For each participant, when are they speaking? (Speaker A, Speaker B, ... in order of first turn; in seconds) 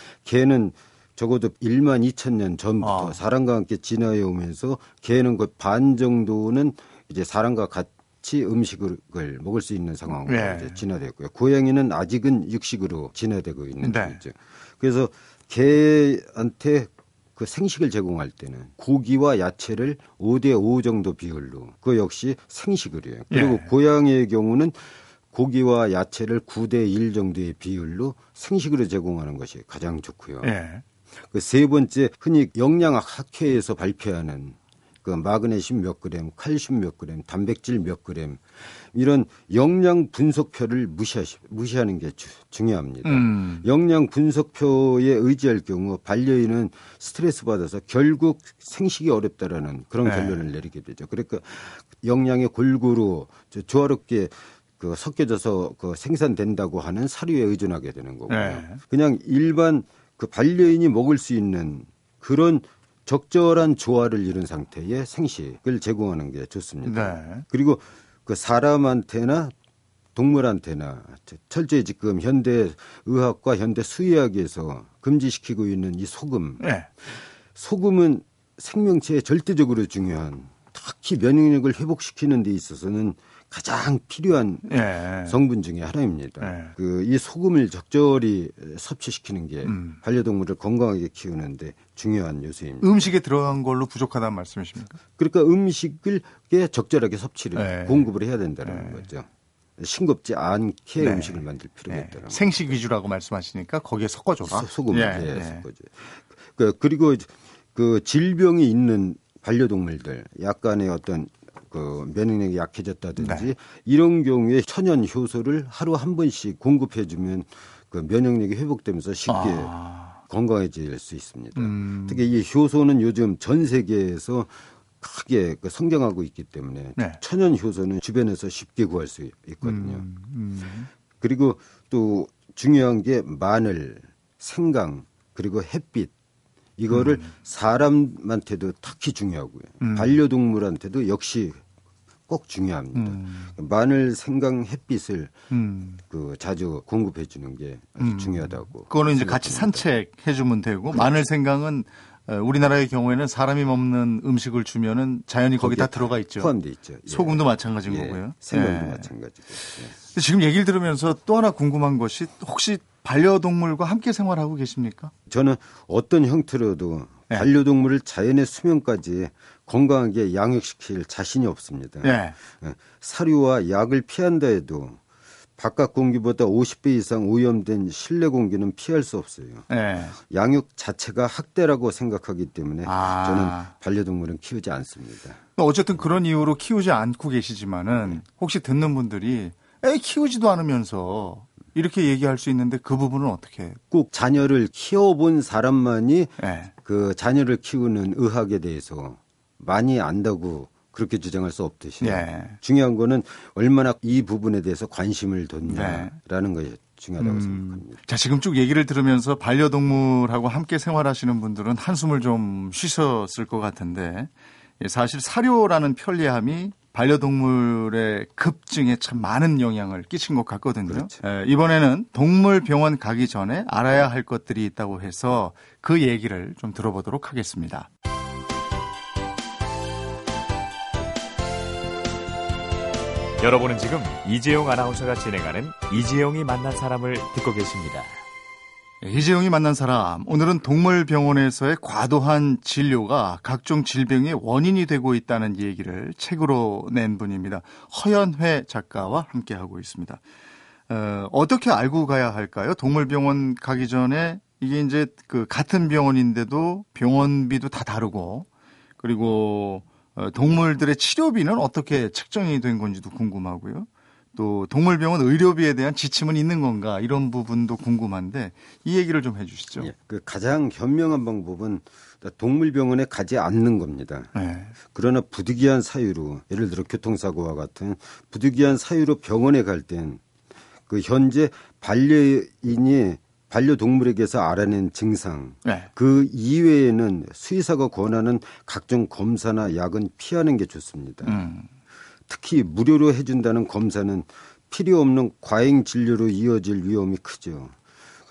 Speaker A: 0.2-30.5, 31.2-69.5, 70.2-76.6, 77.5-93.1, 95.2-99.3, 99.8-102.7, 104.5-130.1, 131.2-136.1, 136.8-141.6, 142.3-145.3, 146.1-149.9, 155.6-159.9, 165.3-175.0, 175.6-185.4, 193.9-208.0, 220.9-221.2, 269.8-274.3, 274.9-280.2, 280.9-291.4, 292.3-297.8
Speaker B: 2.8-3.2, 10.3-10.8, 13.8-14.2, 23.3-23.7, 30.4-30.8, 43.0-43.6, 50.0-50.4, 58.3-58.8, 66.8-67.5, 76.6-76.9, 84.7-85.4, 86.4-86.7, 89.7-90.0, 92.8-95.0, 97.5-98.1, 98.6-99.0, 101.0-105.6, 113.2-113.5, 119.3-120.2, 121.5-122.2, 129.6-130.9, 136.9-137.3, 139.8-140.2, 142.9-143.5, 145.5-146.0, 148.0-156.5, 157.1-159.1, 160.0-165.1, 172.0-172.4, 179.7-180.2, 182.8-183.7, 185.6-193.8, 196.4-196.7, 202.0-202.6, 205.7-206.2, 207.2-227.9, 239.0-250.2, 250.9-258.5, 259.0-269.9, 274.4-274.7, 291.2-291.7
Speaker C: 233.4-238.1